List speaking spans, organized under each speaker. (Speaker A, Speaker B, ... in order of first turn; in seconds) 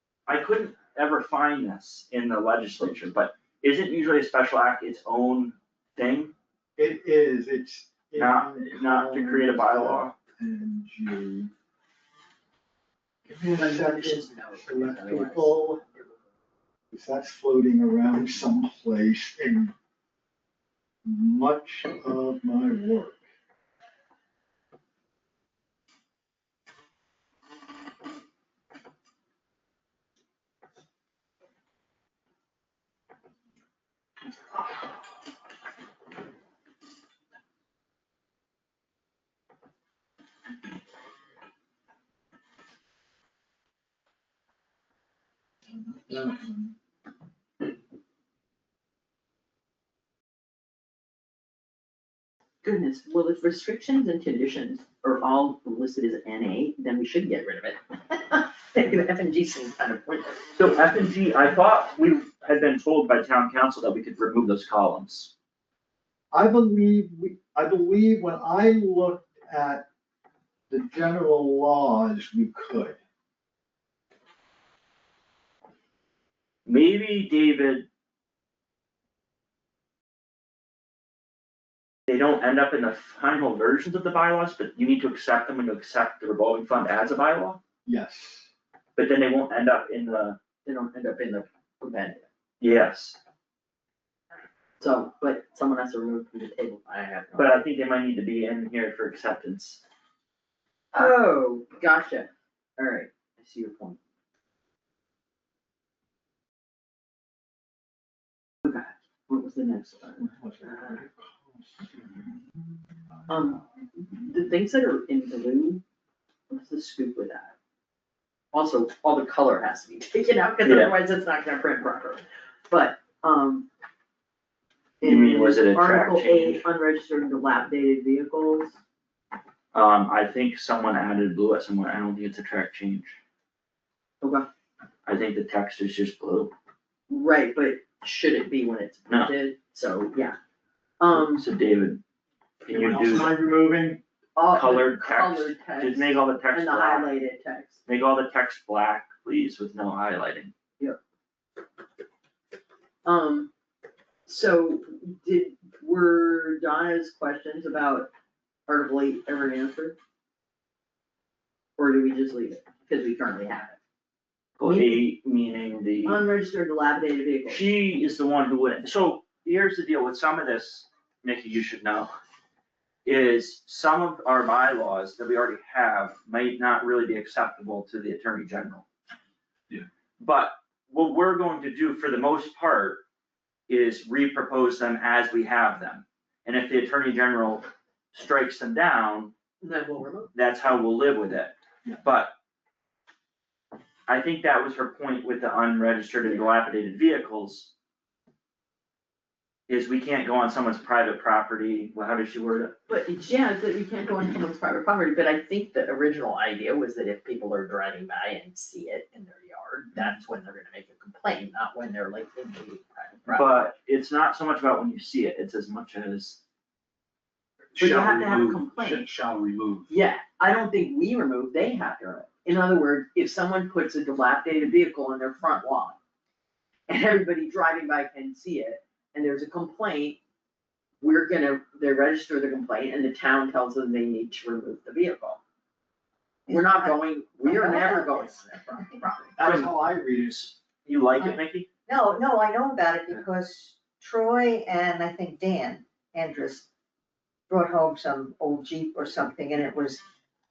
Speaker A: 0.3-6.3, 8.2-10.1, 60.6-65.3, 76.7-77.9, 82.1-87.6, 89.0-90.4, 92.6-93.2, 97.4-99.8, 120.6-120.9, 125.0-126.7, 129.7-133.2, 135.1-136.5, 141.2-142.0, 142.7-143.3, 144.5-147.1, 147.9-150.5, 164.6-166.2, 167.5-172.1, 173.1-178.8, 180.2-183.0, 183.7-189.3, 190.3-192.3, 194.1-197.7, 199.7-202.7, 213.3-216.4, 239.4-241.7
Speaker B: 6.8-11.5, 13.3-15.8, 16.9-19.7, 21.1-23.2, 45.8-46.7, 66.3-69.9, 70.7-73.0, 87.8-88.5, 110.2-112.4, 142.7-144.0, 239.4-240.3
Speaker C: 13.5-15.6, 52.6-60.4, 90.7-92.3, 94.8-97.6, 100.9-104.0, 108.6-111.0, 113.3-113.7, 114.2-115.8, 116.5-117.5, 118.5-123.7, 125.0-128.8, 134.2-134.5, 137.1-140.4, 141.0-141.4, 144.4-147.8, 153.1-153.5, 154.3-158.1, 158.7-160.0, 161.8-163.8, 164.6-165.0, 166.1-167.7, 189.6-190.3, 202.9-213.6, 217.8-219.1, 219.9-226.0, 226.9-230.2, 231.0-235.4, 236.5-239.3
Speaker D: 217.8-219.9
Speaker E: 236.5-238.3, 241.2-246.7, 247.5-250.0